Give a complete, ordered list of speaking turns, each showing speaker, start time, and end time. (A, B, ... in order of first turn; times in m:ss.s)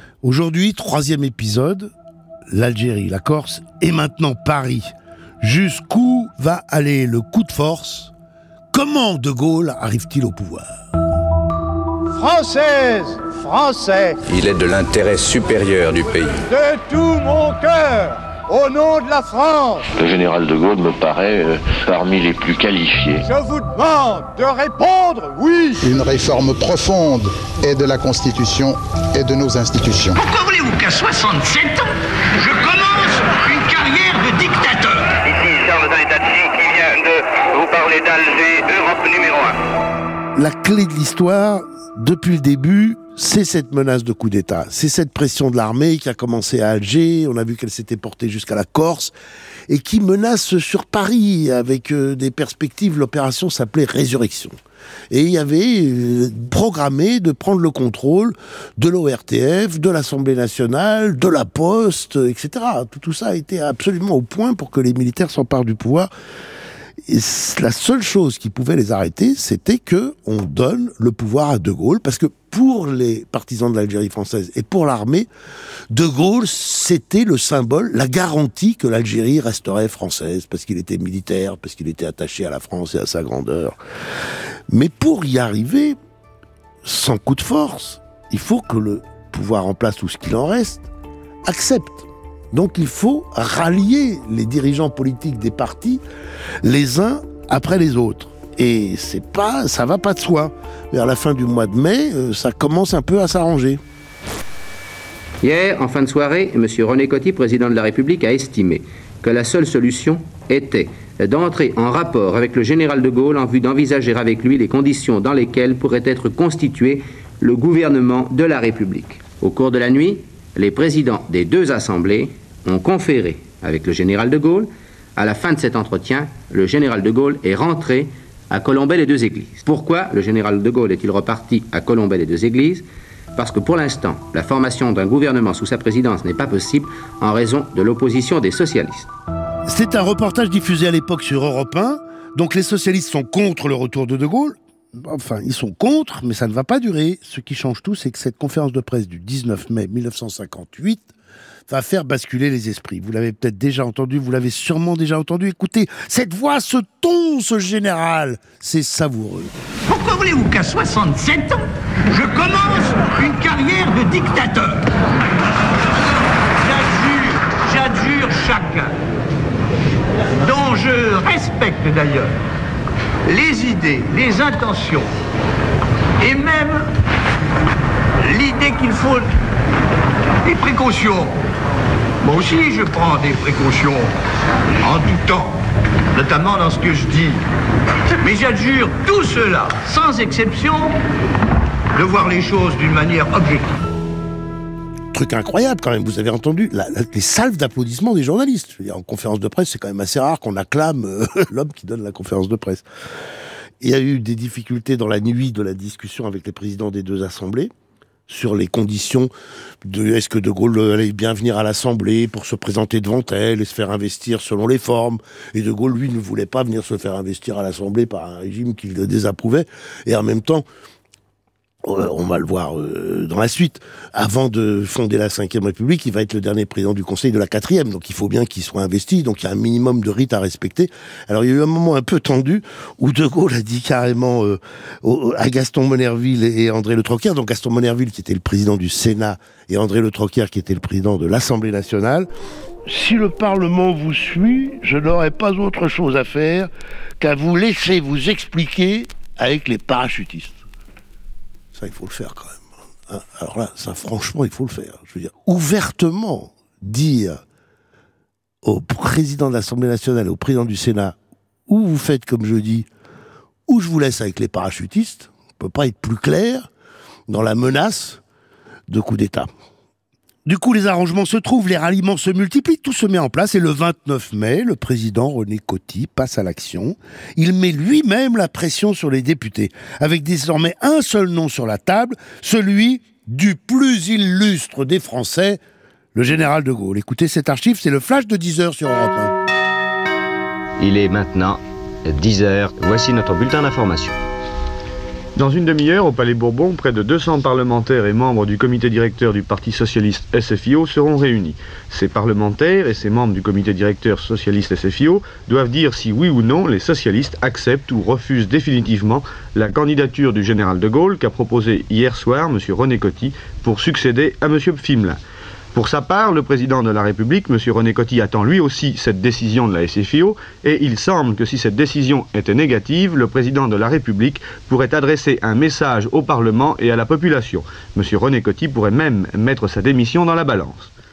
0:00.2-0:01.9 A
0:02.5-0:08.1 A
0:08.7-0:10.7 A
0:12.2-0:14.2 B
0:14.3-0:16.4 C
0:16.4-0:19.8 B
0:20.0-0:23.3 D
0:23.3-0:25.8 B
0:25.8-0:30.2 E
0:30.2-0:31.9 F
0:32.4-0:35.1 F
0:35.2-0:39.6 G
0:40.4-0:49.1 A
0:49.7-0:54.5 A
0:55.1-1:06.1 A
1:07.1-1:15.3 A
1:15.9-1:23.8 A
1:24.7-1:26.0 A
1:26.8-1:30.9 A
1:31.4-1:36.0 A
1:36.6-1:43.8 A
1:45.4-2:12.8 H
2:13.4-2:19.1 H
2:19.7-2:31.1 A
2:31.7-2:39.5 A
2:39.9-2:41.6 F
2:42.2-2:44.8 F
2:46.6-2:48.9 F
2:50.5-2:52.3 F
2:53.3-2:55.0 F
2:56.3-2:56.8 F
2:58.3-2:59.2 F
3:00.5-3:01.3 F
3:02.3-3:04.0 F
3:04.9-3:05.5 F
3:06.2-3:07.3 F
3:08.3-3:10.9 F
3:12.0-3:13.7 F
3:15.1-3:22.8 A
3:23.8-3:27.7 A
3:28.3-3:29.3 A
3:29.9-3:40.6 A
3:41.8-4:02.3 A
4:02.9-4:10.6 A
4:11.8-4:17.4 A
4:18.6-4:21.2 A
4:21.7-4:22.9 A
4:23.7-4:26.6 A
4:27.3-4:28.2 A
4:28.9-4:29.5 A
4:30.4-4:45.6 A
4:46.2-4:49.3 A
4:50.8-4:54.2 I
4:55.4-5:15.2 J
5:15.7-5:30.9 J